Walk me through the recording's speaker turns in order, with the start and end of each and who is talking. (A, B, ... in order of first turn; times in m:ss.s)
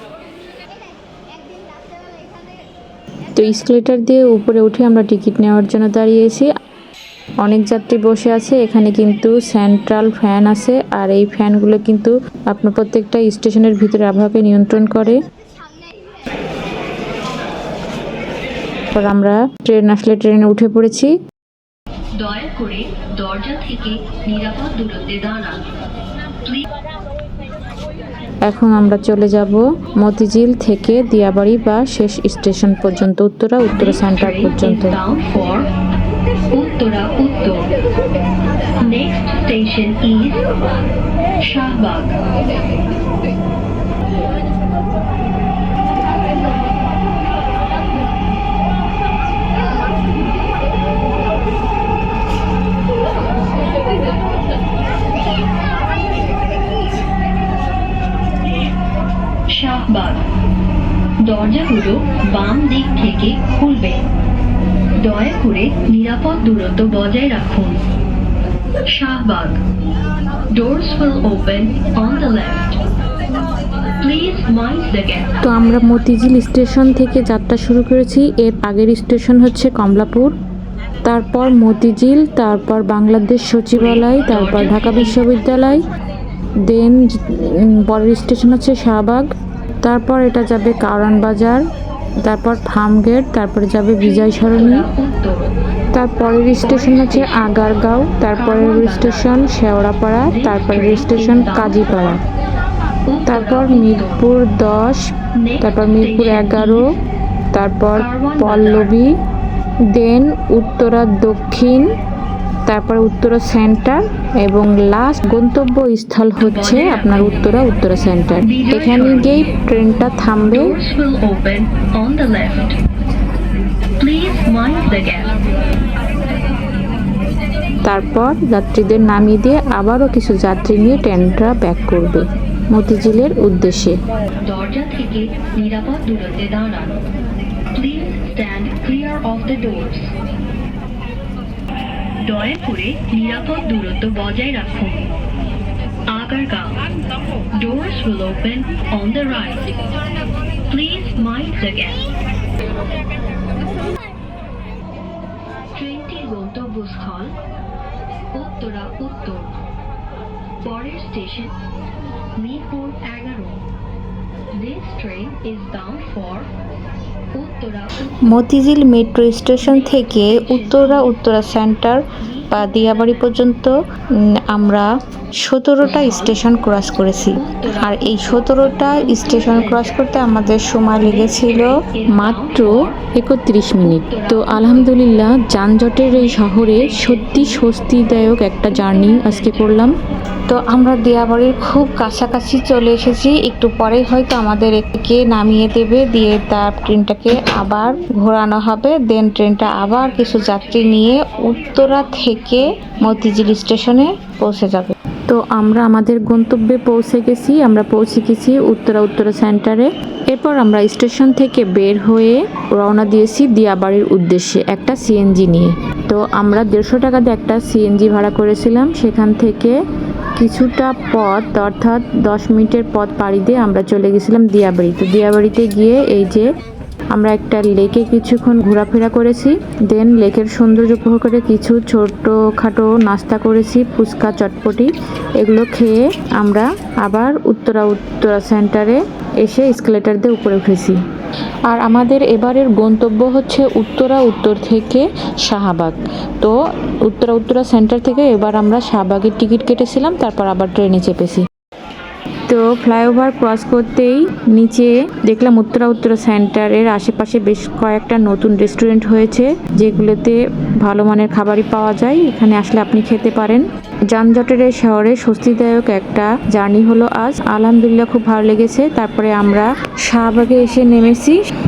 0:03.4-0:06.5 A
0:07.4-0:15.2 A
0:18.9-0:21.1 A
0:22.2-0:25.6 B
0:28.5-0:35.0 A
0:33.7-0:35.7 B
0:36.5-0:37.7 B
0:38.8-0:40.5 B
0:41.4-0:42.1 B
0:59.5-1:00.2 B
1:01.2-1:04.0 B
1:05.0-1:07.8 B
1:08.9-1:09.6 B
1:10.5-1:12.8 B
1:14.0-1:15.4 B
1:15.4-1:20.3 A
1:21.0-1:25.8 A
1:23.7-1:25.2 B
1:26.7-1:29.3 A
1:29.8-1:31.6 A
1:32.2-1:34.9 A
1:34.0-1:35.5 B
1:35.9-1:42.2 A
1:36.6-1:37.5 B
1:38.3-1:39.4 B
1:40.2-1:42.2 B
1:43.1-1:44.3 B
1:43.2-1:45.0 A
1:45.4-1:47.0 B
1:45.6-1:46.8 A
1:47.5-1:49.1 A
1:47.9-1:48.9 B
1:49.9-1:51.9 A
1:52.7-2:00.7 A
1:56.4-1:57.5 B
1:58.4-1:59.5 B
2:00.4-2:02.8 B
2:04.0-2:05.4 B
2:07.8-2:14.0 A
2:14.4-2:17.0 B
2:17.7-2:20.1 B
2:22.2-2:25.1 B
2:26.1-2:26.8 B
2:27.5-2:29.7 B
2:30.7-2:32.1 B
2:35.7-2:37.3 B
2:38.3-2:39.6 B
2:40.6-2:41.5 B
2:42.4-2:43.6 B
2:44.5-2:46.5 B
2:47.3-2:48.3 B
2:48.3-2:53.7 A
2:49.6-2:51.1 B
2:52.2-2:53.3 B
2:54.4-2:54.8 A
2:55.4-3:09.9 A
2:55.8-2:56.4 B
2:57.3-3:00.0 B
3:01.0-3:03.0 B
3:03.8-3:05.0 B
3:06.1-3:07.6 B
3:08.7-3:09.9 B
3:10.5-3:39.8 A
3:19.7-3:23.8 B
3:40.4-3:46.5 A
3:47.1-4:01.0 A
4:01.7-4:06.6 A
4:07.1-4:11.4 A
4:12.5-4:31.4 A